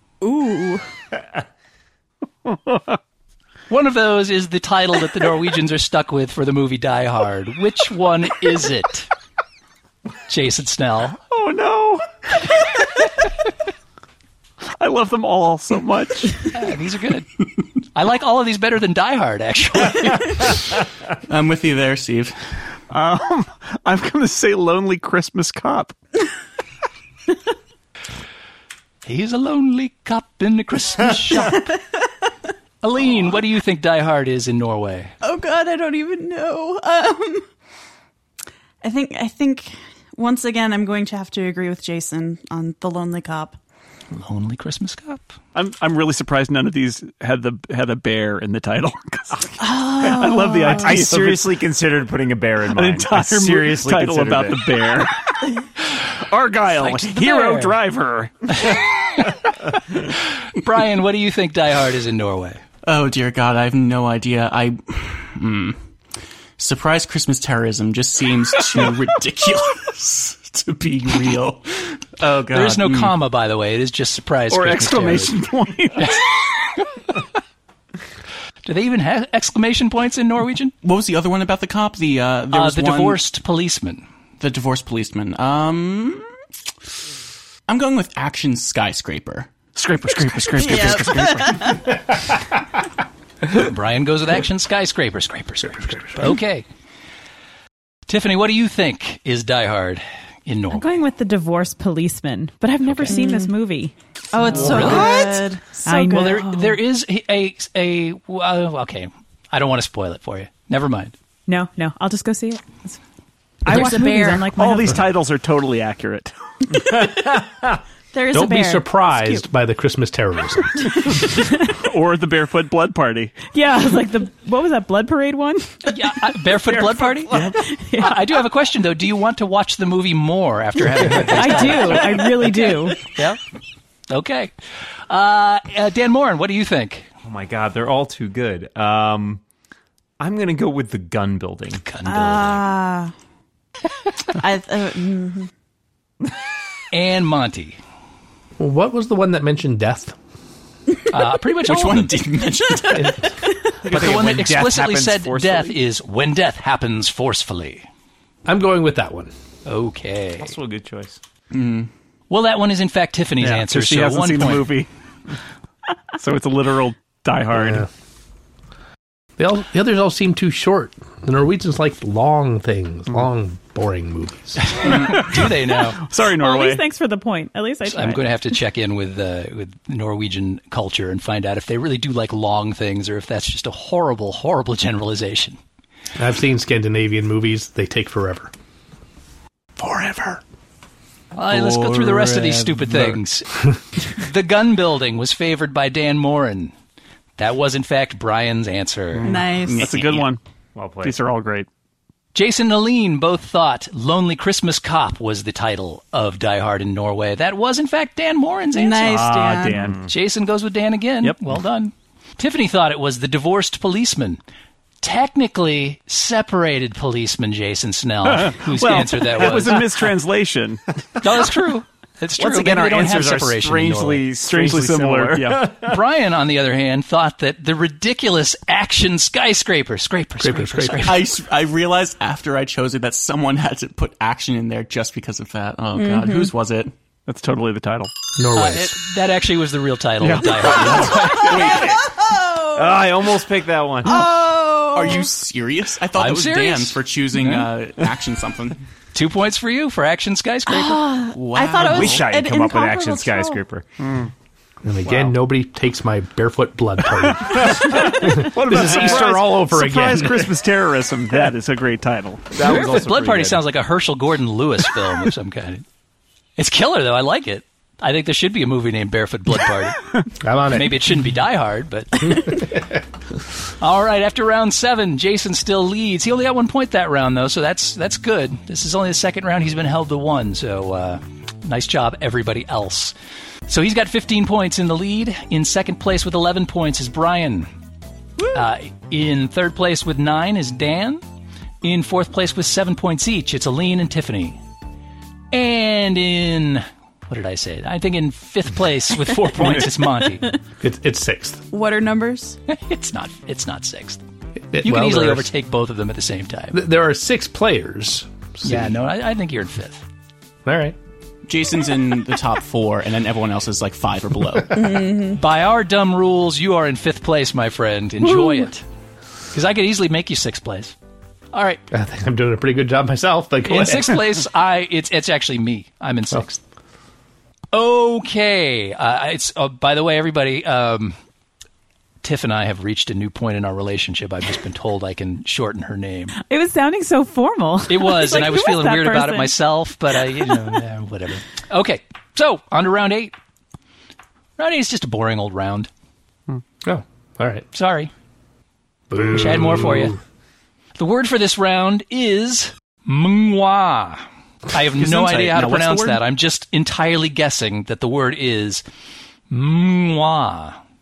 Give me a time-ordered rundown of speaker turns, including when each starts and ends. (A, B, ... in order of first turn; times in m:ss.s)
0:00.2-0:00.8 A
0:03.7-0:09.1 B
0:10.3-0:11.2 B
0:11.3-0:12.0 C
0:14.7-0:16.4 C
0:16.5-0:17.3 B
0:17.9-0:20.5 B
0:21.3-0:22.4 D
0:22.9-0:25.9 C
0:29.0-0:31.7 B
0:31.4-0:31.8 A
0:32.8-0:35.1 B
0:35.2-0:37.4 A
0:38.8-0:43.6 A
0:44.1-0:45.3 B
0:45.5-0:51.6 C
0:49.6-0:51.0 A
0:50.7-0:54.6 E
0:52.7-0:55.2 C
0:56.1-0:58.7 C
0:56.7-0:57.8 B
0:58.5-0:59.4 B
1:00.4-1:02.6 B
1:02.8-1:05.8 D
1:06.6-1:13.1 D
1:12.5-1:15.4 B
1:14.5-1:16.2 C
1:18.6-1:20.7 B
1:20.8-1:23.2 D
1:22.5-1:24.0 B
1:24.4-1:26.3 D
1:27.7-1:29.5 D
1:29.8-1:31.9 C
1:30.5-1:31.9 A
1:33.5-1:36.6 B
1:38.1-1:40.9 B
1:40.7-1:43.9 F
1:42.8-1:43.2 B
1:43.1-1:43.5 A
1:44.3-1:46.1 A
1:44.5-1:45.0 C
1:44.5-1:45.4 B
1:44.7-1:45.2 F
1:45.8-1:46.8 F
1:45.9-1:51.1 B
1:51.5-1:53.0 F
1:53.6-1:55.0 F
1:53.7-1:54.5 A
1:54.5-1:56.3 C
1:56.7-1:57.2 A
1:56.8-1:57.7 E
1:58.1-1:59.4 A
1:58.3-2:00.9 G
2:01.6-2:03.5 C
2:03.4-2:05.9 F
2:05.8-2:12.3 B
2:07.3-2:07.6 C
2:07.6-2:08.2 F
2:11.2-2:13.0 F
2:13.0-2:13.4 B
2:14.1-2:14.5 B
2:15.1-2:17.1 B
2:17.2-2:19.4 E
2:20.2-2:21.8 E
2:21.8-2:22.7 B
2:22.0-2:23.1 A
2:24.3-2:25.5 A
2:26.9-2:27.8 B
2:28.6-2:30.2 G
2:31.1-2:32.2 B
2:31.6-2:33.3 D
2:32.9-2:33.3 G
2:33.8-2:35.8 E
2:33.8-2:37.8 B
2:38.4-2:39.3 G
2:39.6-2:40.5 B
2:40.4-2:41.2 E
2:41.5-2:41.9 D
2:42.3-2:44.7 B
2:43.4-2:44.9 C
2:46.2-2:47.9 C
2:47.5-2:47.9 G
2:49.4-2:54.8 G
2:54.6-2:56.0 B
2:54.8-2:56.8 C
2:56.3-2:58.2 F
2:57.8-3:05.6 B
3:06.2-3:08.5 G
3:09.8-3:10.4 G
3:11.3-3:16.7 B
3:11.5-3:13.1 D
3:17.4-3:19.4 B
3:19.1-3:20.4 C
3:19.2-3:19.9 A
3:19.6-3:20.3 D
3:20.7-3:21.2 E
3:21.0-3:21.7 C
3:22.3-3:29.5 B
3:28.7-3:29.9 A
3:29.0-3:30.1 C
3:29.8-3:30.1 E
3:30.0-3:34.4 B
3:35.0-3:39.9 B
3:38.4-3:40.9 C
3:41.2-3:44.2 B
3:42.4-3:46.0 E
3:44.4-3:45.7 C
3:45.8-3:51.3 B
3:50.4-3:51.1 G
3:51.0-3:56.9 D
3:55.9-3:56.5 A
3:57.3-3:58.1 C
3:58.4-3:59.0 G
3:58.5-4:01.5 B
4:00.2-4:01.5 C
4:00.9-4:02.1 D
4:01.3-4:03.1 A
4:01.3-4:01.8 E
4:02.8-4:04.3 E
4:04.0-4:05.3 A
4:04.9-4:08.8 D
4:06.1-4:07.7 B
4:09.1-4:11.0 B
4:10.7-4:13.6 A
4:11.3-4:12.3 D
4:11.8-4:13.8 E
4:14.8-4:20.5 G
4:17.4-4:22.5 C
4:18.6-4:19.2 E
4:22.5-4:23.6 E
4:22.6-4:25.8 B
4:26.6-4:30.1 B
4:30.4-4:31.2 G
4:30.7-4:32.7 B
4:32.3-4:32.8 G
4:33.8-4:43.1 B
4:43.7-4:47.7 B
4:48.5-4:51.2 B
4:51.8-4:54.6 B
4:55.5-5:00.5 B
5:00.8-5:01.6 G
5:01.7-5:02.6 A
5:02.7-5:04.2 B
5:04.7-5:05.5 G
5:04.8-5:06.8 B
5:06.7-5:09.0 G
5:08.6-5:10.0 B
5:10.6-5:11.0 G
5:11.4-5:15.0 D
5:14.7-5:15.4 A
5:15.3-5:18.8 B
5:18.3-5:18.6 G
5:19.5-5:20.9 B
5:21.5-5:21.8 B
5:21.9-5:24.2 G
5:23.6-5:26.6 B
5:27.7-5:31.2 B
5:32.2-5:36.4 B
5:36.4-5:39.6 F
5:37.9-5:43.3 B
5:44.6-5:45.9 B
5:46.8-5:47.6 G
5:47.7-5:48.1 B
5:49.1-5:50.2 G
5:49.2-5:50.2 B
5:51.0-5:58.8 B
5:55.0-5:56.2 C
5:59.5-6:00.8 B